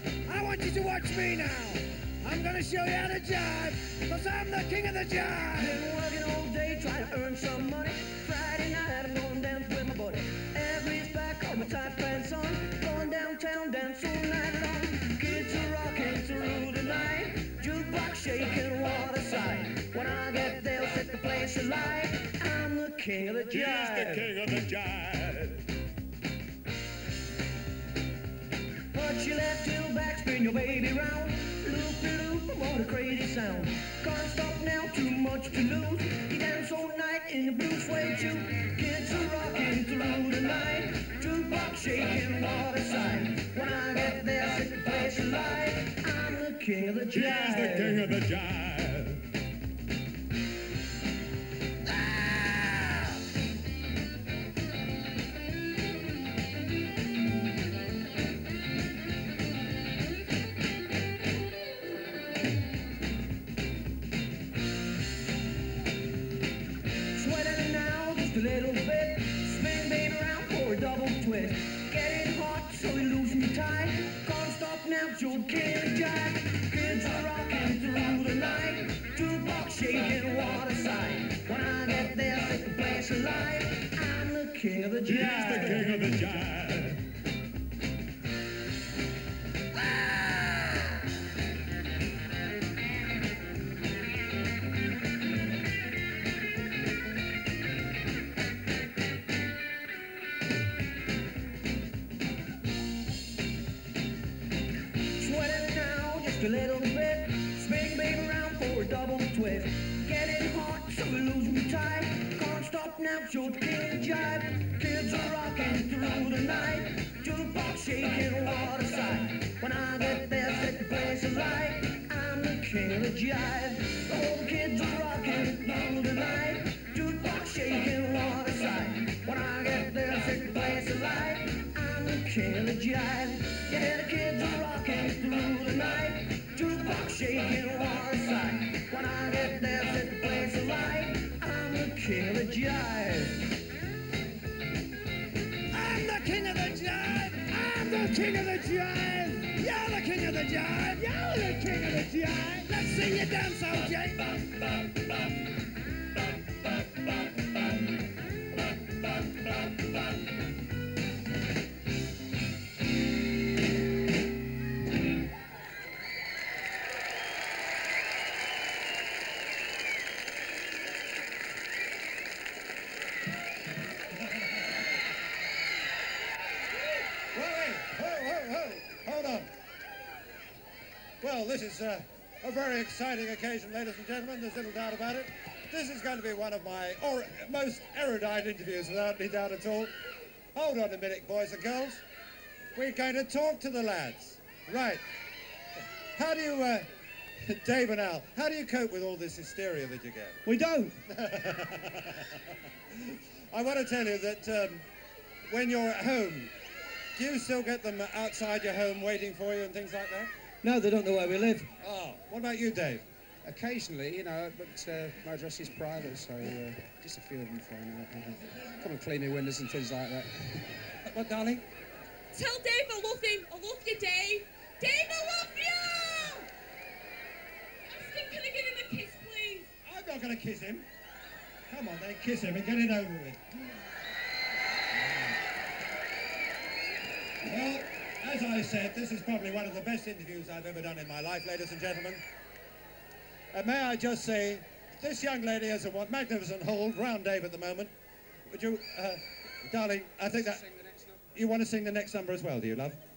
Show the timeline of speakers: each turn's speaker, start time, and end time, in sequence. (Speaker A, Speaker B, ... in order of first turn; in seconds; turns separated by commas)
Speaker A: 0.2-5.8, Speaker B: 5.5-24.3, Speaker C: 23.5-25.6, Speaker B: 28.9-48.1, Speaker C: 47.1-49.2, Speaker B: 67.1-86.2, Speaker C: 85.0-87.0, Speaker B: 105.0-143.5, Speaker A: 145.7-154.6, Speaker D: 177.3-179.5, Speaker D: 181.2-189.9, Speaker D: 190.5-192.0, Speaker D: 192.7-195.0, Speaker D: 196.1-196.9, Speaker D: 197.4-200.4, Speaker A: 200.4-201.0, Speaker D: 201.1-204.8, Speaker D: 205.5-206.5, Speaker D: 207.2-210.3, Speaker A: 210.6-211.7, Speaker D: 211.8-213.0, Speaker E: 213.4-220.6, Speaker D: 221.0-221.6, Speaker F: 222.3-226.5, Speaker F: 227.9-229.7, Speaker D: 229.8-230.9, Speaker D: 231.7-233.4, Speaker D: 234.9-235.4, Speaker D: 237.4-242.2, Speaker D: 243.5-247.9, Speaker D: 248.5-250.6, Speaker E: 250.3-251.2, Speaker D: 251.3-253.0